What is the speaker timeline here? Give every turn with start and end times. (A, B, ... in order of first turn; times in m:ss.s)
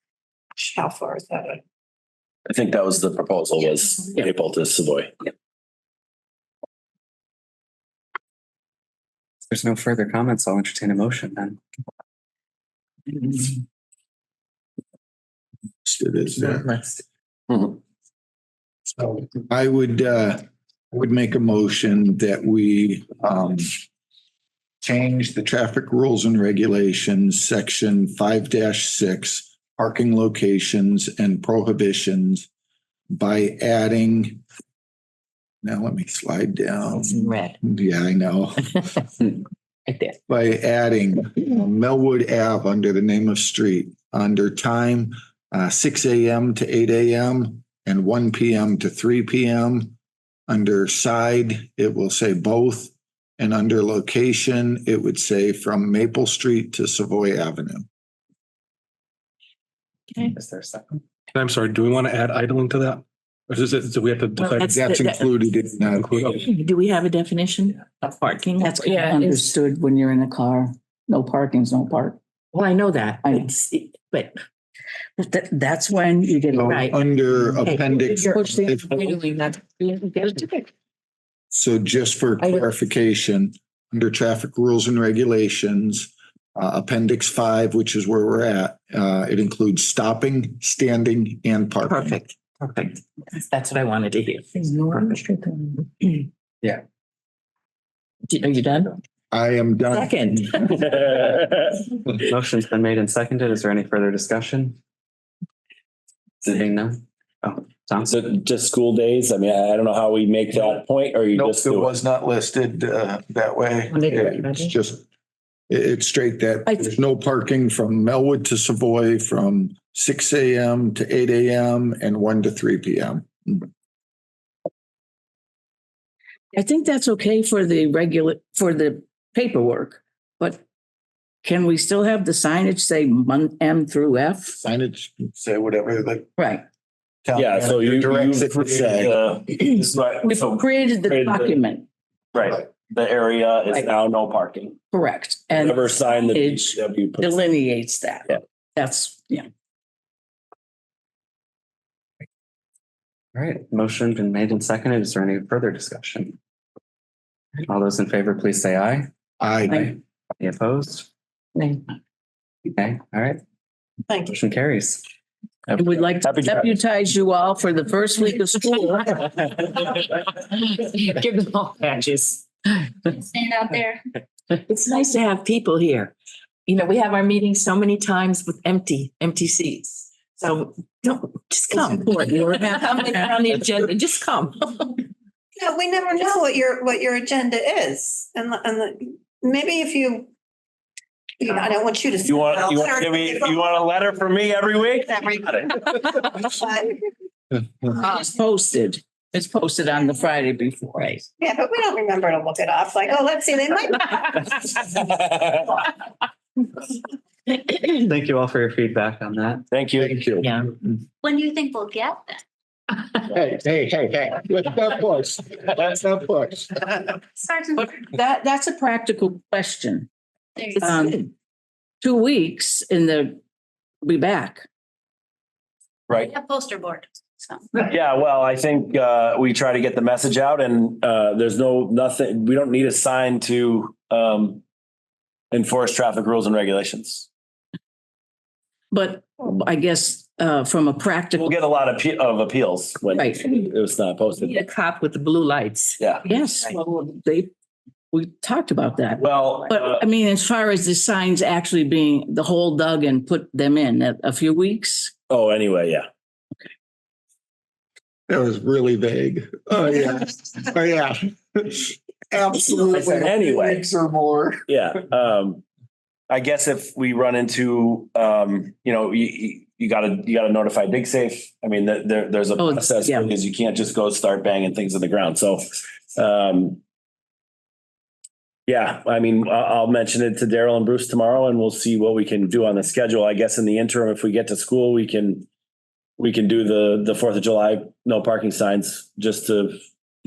0:00.6-0:01.6 A
0:02.5-0:05.1 B
0:09.5-0:11.6 C
0:15.8-0:17.0 D
0:17.5-0:17.8 B
0:19.0-0:23.8 D
0:24.8-0:32.5 D
0:33.1-0:34.4 D
0:35.6-0:39.0 D
0:37.0-0:37.5 E
0:39.9-0:40.2 E
0:40.3-0:50.0 D
0:50.5-0:57.8 D
1:00.2-1:01.0 C
1:01.3-1:04.6 F
1:04.4-1:05.3 E
1:04.6-1:06.4 D
1:06.0-1:06.4 F
1:06.4-1:09.5 E
1:08.6-1:12.2 G
1:12.5-1:14.4 E
1:13.2-1:13.5 G
1:15.2-1:16.8 G
1:16.5-1:19.2 D
1:16.7-1:20.7 E
1:21.5-1:32.2 D
1:31.8-1:36.2 E
1:38.3-1:39.0 E
1:39.3-1:41.1 D
1:39.9-1:40.6 E
1:40.6-1:41.9 B
1:42.2-1:44.8 C
1:46.4-1:48.2 C
1:48.0-1:51.9 B
1:51.3-1:55.0 D
1:53.9-1:54.7 E
1:55.7-2:03.7 D
2:06.5-2:10.6 G
2:11.4-2:14.6 G
2:14.6-2:16.3 D
2:16.4-2:16.6 G
2:17.2-2:19.2 D
2:17.3-2:21.6 B
2:20.2-2:21.8 G
2:22.3-2:24.8 B
2:24.9-2:29.4 G
2:25.6-2:27.4 B
2:33.3-2:36.4 C
2:37.6-2:39.1 C
2:39.4-2:39.9 D
2:39.7-2:41.1 C
2:42.7-2:43.4 C
2:44.1-2:44.3 A
2:44.2-2:45.0 C
2:45.7-2:49.2 G
2:46.2-2:46.6 B
2:50.5-2:52.4 E
2:53.1-2:54.0 H
2:54.5-2:56.1 E
2:56.7-3:04.9 E
3:01.7-3:03.4 G
3:05.6-3:10.3 A
3:11.4-3:13.8 A
3:12.2-3:15.8 B
3:15.1-3:17.1 A
3:18.0-3:21.2 G
3:21.4-3:24.5 A
3:24.9-3:25.6 B
3:27.5-3:29.6 C
3:29.7-3:30.5 B
3:30.0-3:30.9 D
3:31.2-3:32.4 H
3:33.2-3:37.1 D
3:37.4-3:37.9 H
3:37.8-3:40.1 G
3:40.8-3:41.2 E
3:40.8-3:41.3 G
3:42.0-3:43.4 G
3:44.0-3:44.6 G
3:46.2-3:47.6 H
3:47.8-3:54.6 B
3:55.5-3:57.3 B
3:58.9-4:01.6 G
4:01.3-4:04.6 B
4:03.1-4:03.4 G
4:04.4-4:06.3 E
4:06.0-4:06.2 B
4:06.2-4:07.5 G
4:08.1-4:15.1 G
4:09.2-4:10.0 B
4:15.3-4:16.0 B
4:18.3-4:24.6 D
4:22.9-4:23.8 B
4:24.7-4:25.6 B
4:26.3-4:35.6 B
4:32.6-4:33.3 G
4:36.1-4:36.8 B
4:38.7-4:45.4 B
4:46.2-4:49.8 B